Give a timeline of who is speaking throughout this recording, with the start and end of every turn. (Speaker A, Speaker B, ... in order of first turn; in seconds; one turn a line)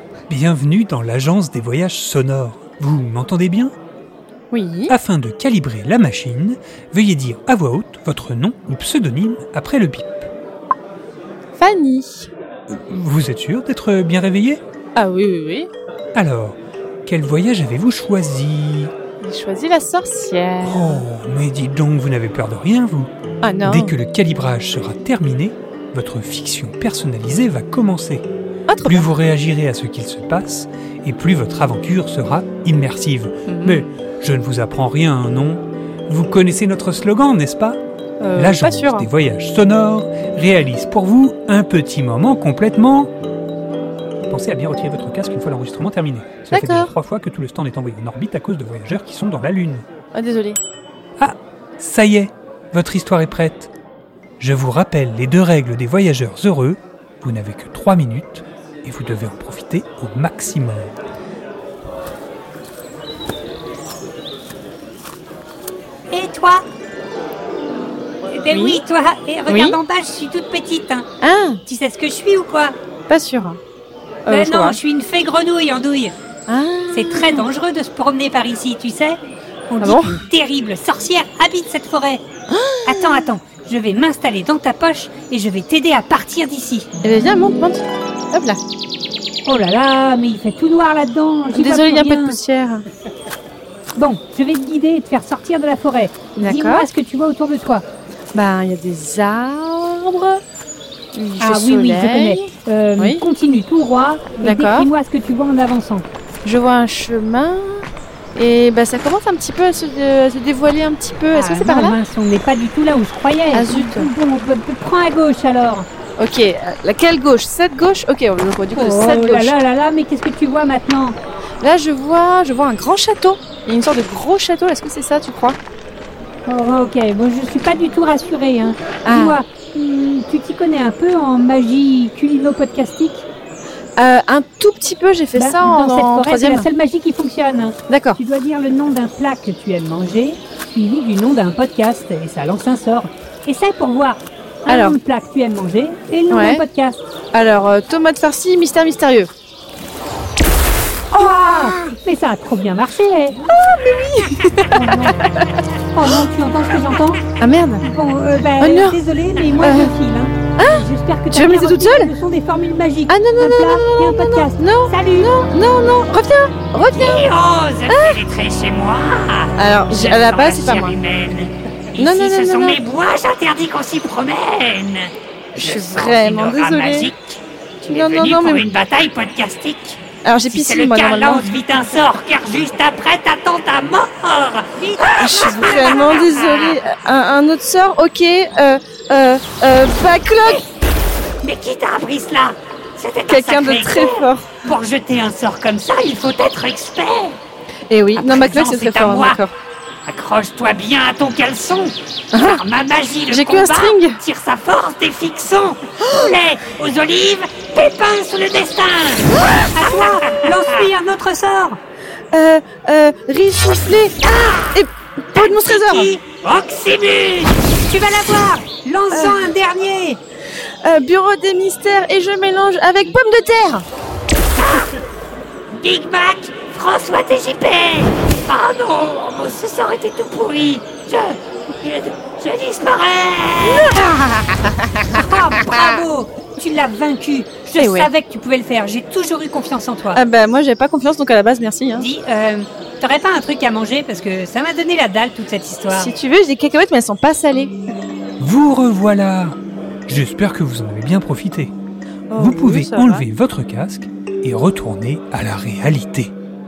Speaker A: 0.3-3.7
Speaker B: 4.5-4.9
Speaker A: 4.9-10.3
Speaker B: 11.6-12.3
Speaker A: 12.7-14.6
Speaker B: 15.0-15.7
Speaker A: 16.1-18.9
Speaker B: 19.2-21.0
Speaker A: 20.6-23.1
Speaker B: 23.4-23.9
Speaker A: 23.6-28.3
Speaker B: 28.7-29.1
Speaker A: 28.9-37.8
Speaker B: 33.5-33.9
Speaker B: 38.2-39.1
Speaker A: 38.4-43.1
Speaker A: 44.2-49.9
Speaker B: 46.5-46.9
Speaker B: 50.1-50.6
Speaker A: 51.2-53.7
Speaker A: 54.4-60.9
Speaker C: 66.1-66.6
Speaker C: 68.3-71.1
Speaker B: 68.5-68.8
Speaker B: 69.5-69.8
Speaker B: 71.2-71.6
Speaker C: 71.7-72.8
Speaker B: 73.1-73.6
Speaker B: 74.3-74.8
Speaker C: 74.3-76.1
Speaker B: 76.5-77.4
Speaker C: 76.9-79.2
Speaker C: 79.7-82.2
Speaker B: 79.8-80.2
Speaker B: 82.5-83.3
Speaker C: 82.8-86.9
Speaker B: 87.0-88.6
Speaker C: 89.5-92.4
Speaker B: 91.5-92.9
Speaker C: 94.0-97.8
Speaker B: 96.4-96.9
Speaker B: 98.3-100.4
Speaker B: 101.1-103.2
Speaker C: 101.4-106.1
Speaker B: 104.4-104.9
Speaker B: 106.5-112.0
Speaker C: 111.3-115.9
Speaker B: 113.5-114.1
Speaker B: 116.2-119.5
Speaker C: 118.7-121.2
Speaker B: 121.6-125.6
Speaker C: 126.5-133.2
Speaker B: 129.1-129.4
Speaker B: 134.0-136.7
Speaker C: 135.3-147.0
Speaker B: 137.9-138.2
Speaker B: 144.7-145.0
Speaker B: 146.3-146.6
Speaker B: 147.3-149.3
Speaker B: 151.1-152.0
Speaker C: 151.1-153.4
Speaker B: 153.5-155.5
Speaker C: 154.7-155.3
Speaker C: 155.9-157.2
Speaker B: 157.4-157.9
Speaker C: 157.8-165.5
Speaker B: 158.6-159.0
Speaker B: 159.6-159.9
Speaker B: 160.6-162.1
Speaker B: 163.1-167.3
Speaker D: 166.9-186.8
Speaker B: 167.9-168.2
Speaker B: 169.6-171.0
Speaker B: 172.0-172.8
Speaker B: 175.6-177.1
Speaker B: 177.8-178.7
Speaker B: 180.2-181.6
Speaker B: 185.0-190.6
Speaker D: 191.4-197.4
Speaker B: 193.3-194.6
Speaker B: 197.9-199.5
Speaker D: 198.2-199.4
Speaker D: 200.1-210.9
Speaker B: 202.3-202.6
Speaker B: 203.3-204.2
Speaker C: 209.7-211.8
Speaker B: 212.3-216.2
Speaker D: 215.4-217.6
Speaker C: 217.8-220.2
Speaker B: 219.1-219.5
Speaker B: 220.8-223.8
Speaker D: 224.6-224.9
Speaker D: 225.7-234.0
Speaker B: 233.6-234.8
Speaker C: 235.1-240.2
Speaker B: 235.7-236.0
Speaker B: 237.8-238.1
Speaker B: 240.1-242.1
Speaker C: 241.9-246.1
Speaker B: 245.9-247.7
Speaker A: 248.4-251.7
Speaker B: 252.3-253.3
Speaker A: 252.4-256.3